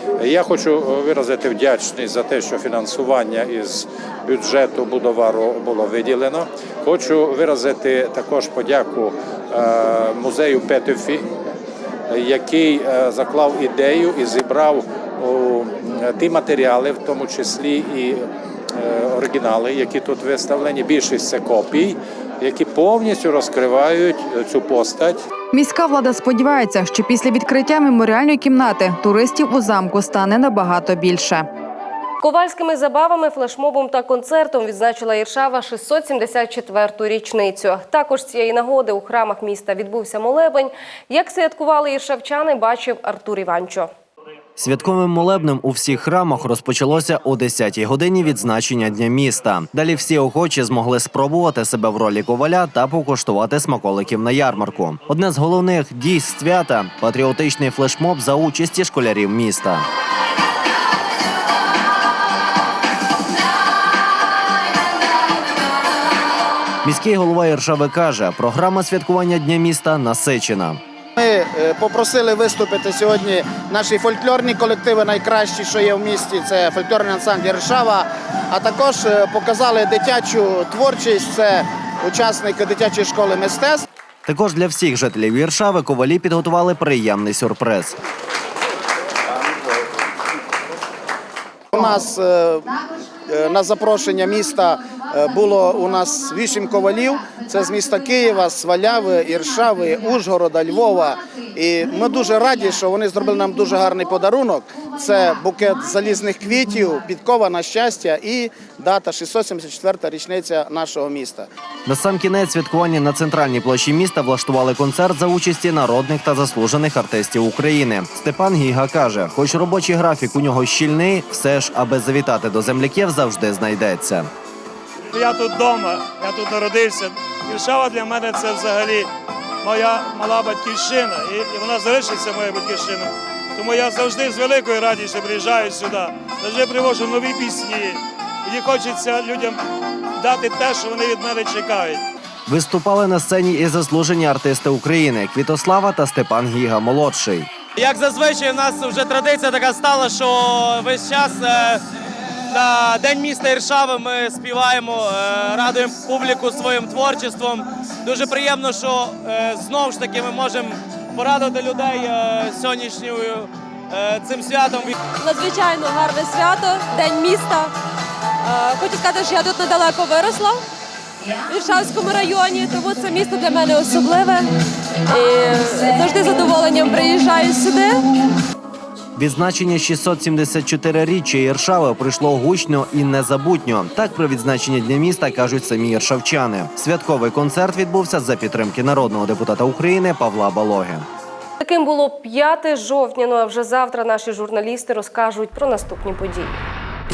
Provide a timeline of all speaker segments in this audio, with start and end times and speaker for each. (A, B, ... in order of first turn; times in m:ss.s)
0:00.2-0:11.3 A
0:12.1-0:25.2 A
0:25.5-0:31.4 B
0:32.2-0:43.9 C
0:44.6-0:59.8 D
1:06.8-1:10.8 D
1:11.2-1:23.8 E
1:24.2-1:28.0 D
1:31.7-1:32.7 E
1:33.3-1:51.5 E
1:51.8-2:04.3 D
2:05.2-2:09.1 F
2:09.7-2:13.1 F
2:13.6-2:18.0 F
2:18.5-2:19.5 F
2:20.4-2:22.0 F
2:22.5-2:27.5 D
2:27.8-2:31.8 G
2:32.5-2:44.9 G
2:45.2-2:47.7 H
2:48.4-2:50.6 H
2:51.5-2:54.5 H
2:55.0-2:58.0 H
2:59.2-3:11.0 D
3:11.6-3:16.6 C